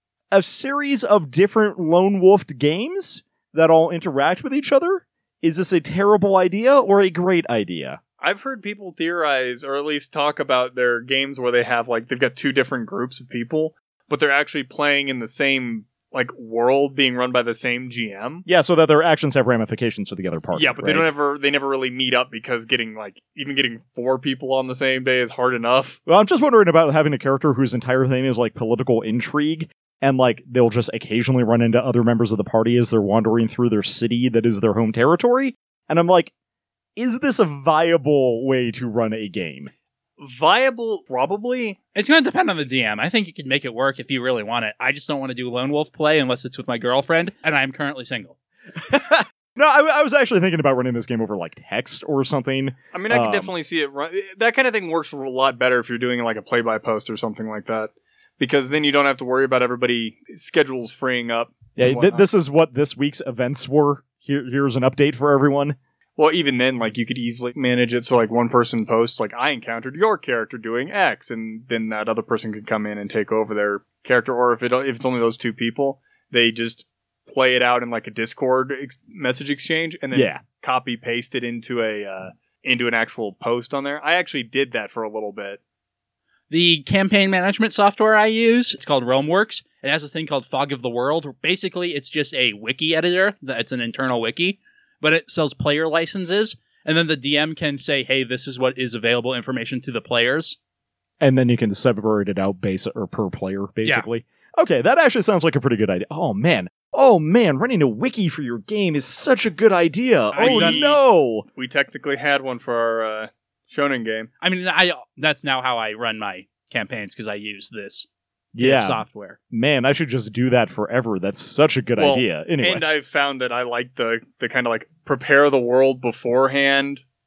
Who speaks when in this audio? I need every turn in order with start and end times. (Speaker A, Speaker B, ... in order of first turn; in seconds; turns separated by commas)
Speaker A: 0.3-8.0, Speaker B: 8.2-18.4, Speaker A: 18.5-21.1, Speaker B: 20.5-26.0, Speaker A: 26.1-36.3, Speaker A: 37.0-39.7, Speaker B: 40.2-41.8, Speaker C: 41.9-48.3, Speaker A: 48.8-53.5, Speaker B: 52.9-62.2, Speaker A: 61.8-65.8, Speaker B: 66.2-85.6, Speaker A: 80.1-80.4, Speaker C: 86.5-100.6, Speaker A: 101.2-111.5, Speaker C: 110.3-111.0, Speaker B: 110.4-111.0, Speaker B: 111.5-114.3, Speaker C: 114.4-118.1, Speaker A: 118.5-122.8, Speaker C: 118.6-119.4, Speaker B: 122.0-127.0